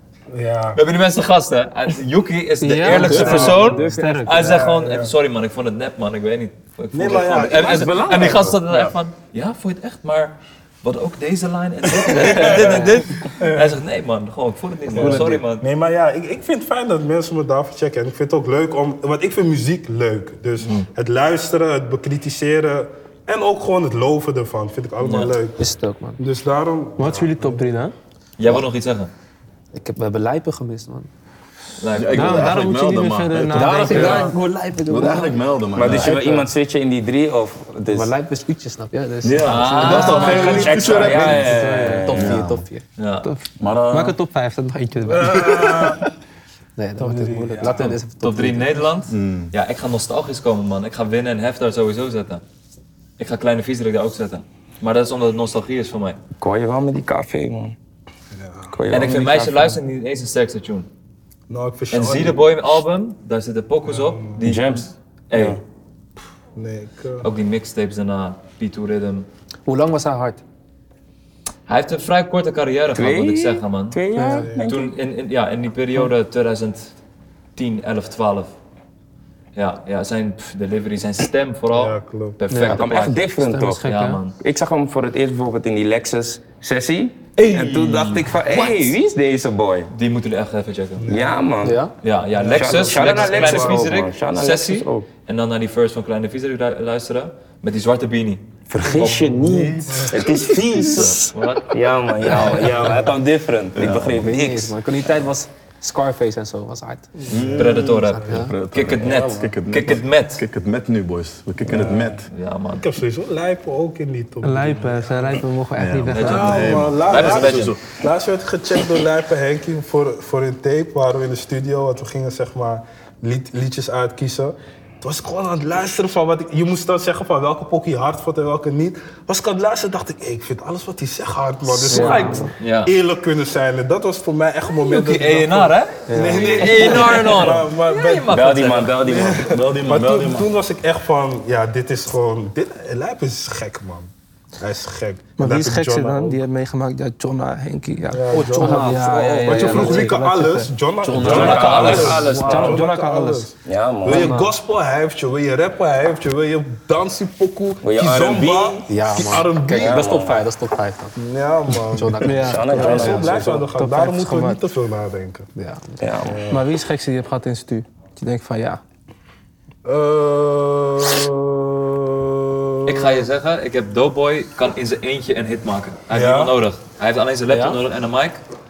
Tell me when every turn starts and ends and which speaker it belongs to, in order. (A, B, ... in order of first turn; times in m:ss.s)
0:00.3-0:00.8 A
0:00.7-0:15.6 B
0:02.6-0:04.6 C
0:02.9-0:03.7 A
0:02.9-0:04.5 D
0:03.3-0:03.5 E
0:04.4-0:05.1 A
0:06.9-0:08.3 A
0:07.2-0:08.9 E
0:12.0-0:13.8 A
0:14.9-0:25.6 A
0:20.6-0:20.9 B
0:25.0-0:25.3 B
0:25.6-0:26.2 D
0:26.2-0:27.8 A
0:27.0-0:27.9 C
0:28.4-0:29.1 B
0:29.7-0:31.1 D
0:31.8-0:32.5 B
0:31.9-0:34.3 F
0:32.1-0:34.3 C
0:33.5-0:36.5 D
0:33.9-0:34.3 E
0:34.8-0:36.2 F
0:35.7-0:38.1 E
0:37.9-0:42.8 D
0:39.2-0:42.6 F
0:39.4-0:41.2 B
0:39.9-0:40.3 C
0:39.9-0:41.3 A
0:39.9-0:42.4 E
0:41.6-0:42.0 C
0:43.0-0:43.3 B
0:43.2-0:45.9 C
0:43.6-0:44.2 F
0:45.0-0:46.1 A
0:46.8-0:49.0 D
0:47.0-0:47.9 A
0:47.6-0:52.4 B
0:49.1-0:49.5 F
0:53.2-0:56.2 B
0:56.4-0:57.7 E
0:58.3-0:58.8 A
0:58.7-0:59.8 E
0:58.9-1:00.9 B
1:01.5-1:02.4 A
1:01.9-1:05.6 B
1:03.9-1:04.4 A
1:04.4-1:05.6 E
1:06.6-1:07.3 A
1:07.2-1:09.3 B
1:09.6-1:10.4 D
1:11.7-1:14.0 B
1:12.9-1:15.0 E
1:14.1-1:14.5 D
1:14.2-1:14.6 A
1:14.6-1:16.9 B
1:17.6-1:18.5 B
1:19.5-1:23.3 B
1:21.7-1:22.4 A
1:22.5-1:22.9 D
1:22.6-1:23.9 E
1:23.4-1:24.2 C
1:23.8-1:24.4 B
1:24.4-1:29.9 E
1:27.4-1:29.0 B
1:29.9-1:31.1 B
1:31.0-1:31.5 A
1:31.1-1:31.8 E
1:31.6-1:31.9 D
1:32.0-1:39.1 B
1:32.4-1:33.9 A
1:32.4-1:35.1 E
1:38.7-1:44.8 E
1:38.8-1:40.3 A
1:39.9-1:40.2 F
1:40.8-1:41.2 F
1:41.3-1:43.0 B
1:43.7-1:44.3 F
1:44.1-1:47.1 D
1:47.2-1:48.0 A
1:47.3-1:52.3 F
1:47.5-1:50.4 B
1:47.8-1:48.5 D
1:51.8-1:52.1 A
1:52.0-1:52.8 B
1:52.8-1:55.4 A
1:54.4-1:56.7 C
1:55.8-1:57.8 F
1:56.1-1:57.7 B
1:56.2-2:26.4 A
2:11.7-2:12.5 C
2:11.8-2:12.5 D
2:12.6-2:12.9 B
2:14.8-2:19.0 B
2:16.1-2:17.0 D
2:18.3-2:19.5 E
2:19.4-2:20.5 F
2:25.4-2:30.7 C
2:28.1-2:40.0 A
2:28.3-2:30.2 D
2:31.0-2:32.6 D
2:31.2-2:32.8 E
2:31.2-2:32.3 B
2:31.4-2:33.5 C
2:33.6-2:34.4 E
2:34.0-2:34.5 D
2:37.8-2:38.9 E
2:38.9-2:41.1 D
2:39.7-2:40.4 E
2:41.2-2:45.5 A
2:41.9-2:43.4 D
2:42.2-2:44.6 C
2:42.3-2:43.6 E
2:45.6-2:46.0 D
2:46.0-2:46.4 E
2:46.2-2:46.6 A
2:46.5-2:48.8 C
2:49.8-2:53.2 A
2:52.8-2:58.4 B
2:56.1-2:56.6 A
2:57.5-2:57.8 D